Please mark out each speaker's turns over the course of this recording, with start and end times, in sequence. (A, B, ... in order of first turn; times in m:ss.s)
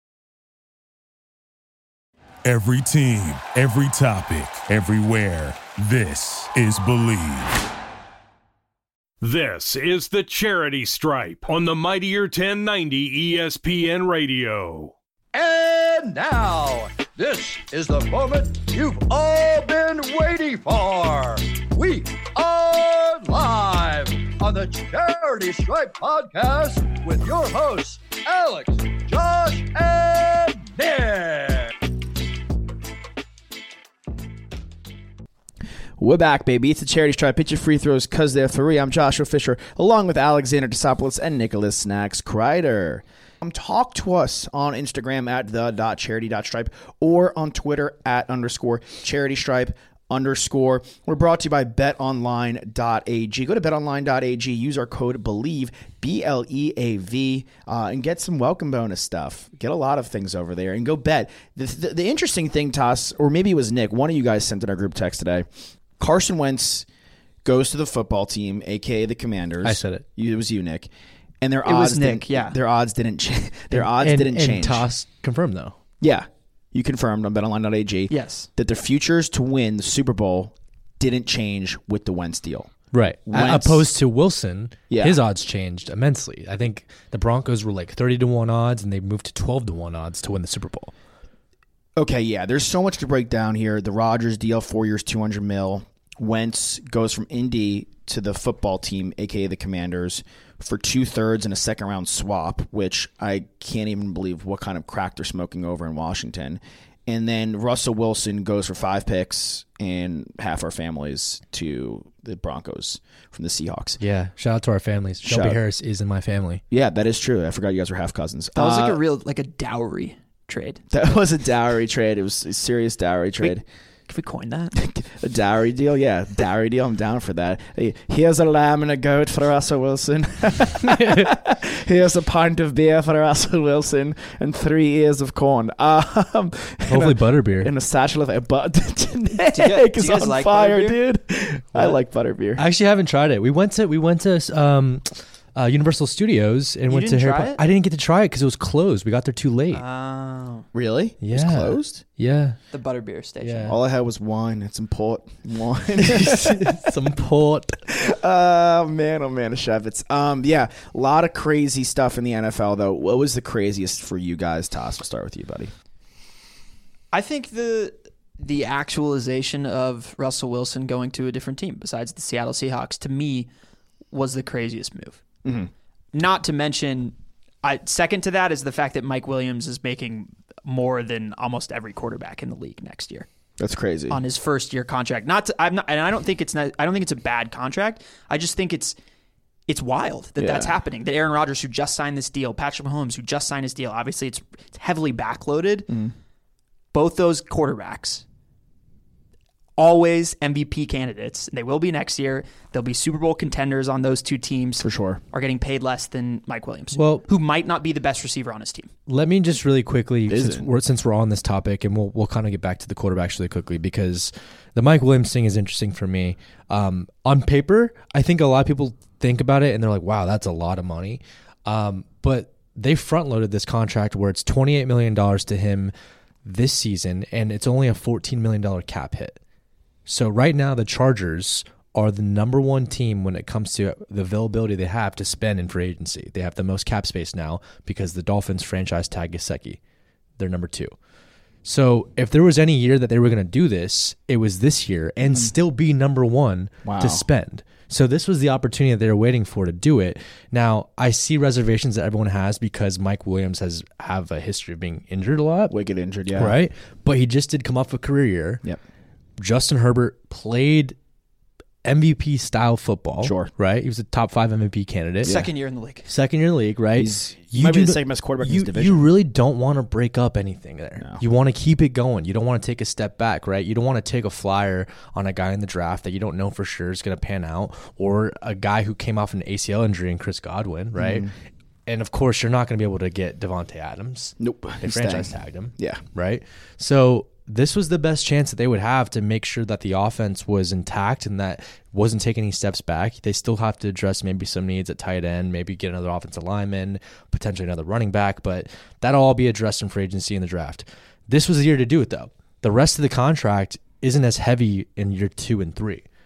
0:02.4-0:07.7 A
0:09.2-0:14.9 B
0:15.3-0:31.8 C
0:36.0-1:05.5 D
1:06.0-1:06.9 D
1:07.4-1:10.9 D
1:09.6-1:10.0 E
1:11.4-1:14.9 D
1:11.6-1:12.6 F
1:13.7-1:15.8 E
1:16.0-1:22.7 D
1:18.1-1:18.5 F
1:22.9-1:30.9 E
1:23.3-1:23.9 D
1:24.9-1:25.2 D
1:32.0-1:54.0 D
1:54.0-1:56.6 E
1:55.2-1:55.6 D
1:56.7-1:59.0 D
1:58.6-2:00.8 F
2:00.9-2:03.6 D
2:04.1-2:04.8 F
2:04.8-2:22.6 D
2:10.8-2:11.3 E
2:16.9-2:17.7 E
2:19.4-2:21.0 F
2:22.6-2:29.8 E
2:26.9-2:27.6 F
2:29.7-2:30.7 F
2:30.7-2:32.0 D
2:31.2-2:32.6 E
2:32.7-2:33.7 F
2:33.4-2:33.8 E
2:33.7-2:37.0 D
2:36.0-2:37.8 E
2:37.9-2:45.7 D
2:47.1-2:53.5 F
2:54.1-2:55.2 F
2:55.4-2:55.7 D
2:56.1-3:03.3 F
3:03.6-3:04.2 D
3:04.1-3:09.0 F
3:09.7-3:15.9 F
3:10.4-3:10.8 D
3:15.9-3:16.1 D
3:16.9-3:18.2 F
3:19.8-3:28.9 F
3:24.8-3:25.2 D
3:27.0-3:27.3 E
3:29.1-3:45.9 E
3:30.3-3:30.7 D
3:46.4-3:49.4 E
3:50.1-3:59.8 E
4:00.4-4:01.0 E
4:01.6-4:15.8 E
4:06.8-4:07.3 D
4:15.7-4:16.6 D
4:16.4-4:18.6 E
4:19.4-4:21.0 E
4:21.8-4:25.4 E
4:23.2-4:23.5 D
4:25.2-4:25.5 D
4:25.2-4:26.1 F
4:26.1-4:41.3 E
4:27.0-4:29.1 D
4:41.0-4:41.3 D
4:41.9-5:06.0 E
4:44.4-4:46.0 D